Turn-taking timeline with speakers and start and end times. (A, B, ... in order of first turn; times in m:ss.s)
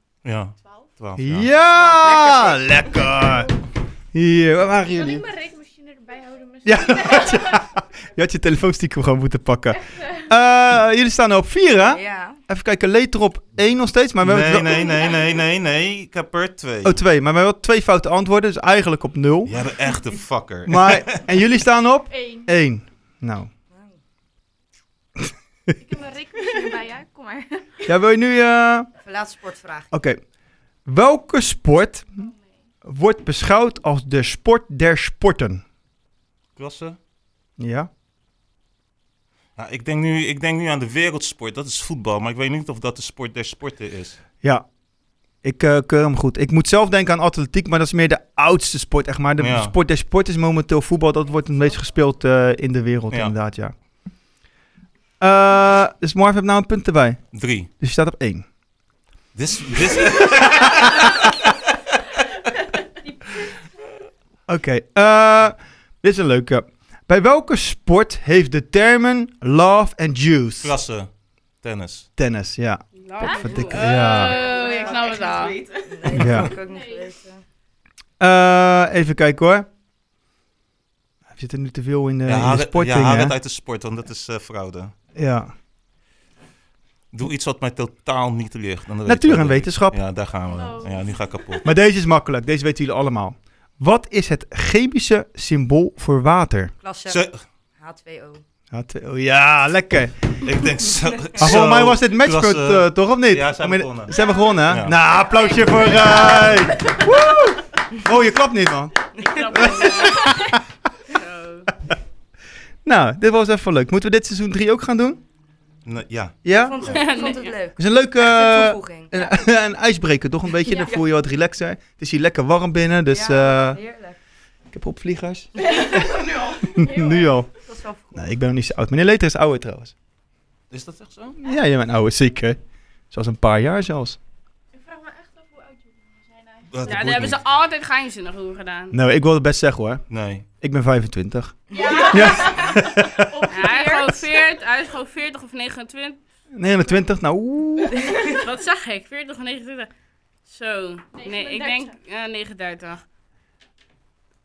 0:00.2-0:01.5 A
0:00.6-0:00.9 B
0:01.2-0:03.5 C
0:01.7-0:03.0 D
0:04.1-0:05.2 C
0:04.9-0:07.7 E
0:06.6-0:15.0 C
0:11.9-0:12.4 D
0:14.2-0:17.0 A
0:16.8-0:19.6 C
0:19.4-0:21.2 A
0:20.7-0:23.5 C
0:22.1-0:22.5 E
0:25.2-0:25.7 C
0:25.8-0:27.8 E
0:27.8-0:28.9 C
0:29.0-0:29.9 D
0:29.9-0:30.2 C
0:30.8-0:32.3 C
0:32.8-0:35.6 C
0:36.6-0:37.0 A
0:37.6-0:37.9 C
0:39.6-0:44.2 A
0:45.4-0:53.7 C
0:49.4-0:49.7 A
0:55.2-0:58.5 C
0:57.3-0:57.7 A
0:59.3-1:01.5 A
1:04.5-1:10.8 C
1:10.6-1:12.1 A
1:12.2-1:14.4 C
1:12.9-1:15.6 F
1:13.2-1:13.6 E
1:13.9-1:16.3 B
1:14.0-1:17.4 D
1:16.1-1:16.5 C
1:16.7-1:17.0 E
1:18.2-1:19.7 C
1:21.3-1:23.3 C
1:22.2-1:24.9 A
1:25.1-1:25.5 C
1:27.1-1:31.6 A
1:29.0-1:30.0 C
1:30.5-1:31.2 E
1:31.6-1:36.7 C
1:36.8-1:37.2 D
1:37.1-1:37.4 A
1:37.8-1:38.4 D
1:38.7-1:40.4 C
1:40.4-1:44.1 A
1:41.4-1:48.9 C
1:44.7-1:44.9 A
1:45.4-1:46.7 D
1:49.2-1:49.9 D
1:49.2-1:50.6 F
1:49.5-1:50.6 C
1:51.1-1:51.7 F
1:52.8-1:55.2 C
1:55.8-1:57.0 A
1:56.4-1:57.0 C
1:56.6-1:59.4 D
1:56.8-1:57.5 F
1:57.8-2:03.8 C
2:00.6-2:01.0 D
2:03.1-2:04.2 D
2:04.7-2:06.1 C
2:05.8-2:06.7 B
2:06.7-2:07.5 C
2:06.8-2:07.2 E
2:07.6-2:08.3 D
2:08.1-2:09.9 C
2:10.7-2:11.4 A
2:11.4-2:14.2 C
2:14.7-2:16.7 E
2:16.7-2:17.4 A
2:16.8-2:18.9 F
2:18.9-2:23.3 C
2:20.1-2:20.4 A
2:21.7-2:22.0 D
2:21.7-2:24.4 E
2:23.5-2:26.2 F
2:26.5-2:28.1 C
2:28.3-2:29.9 F
2:30.4-2:33.0 F
2:31.1-2:31.9 E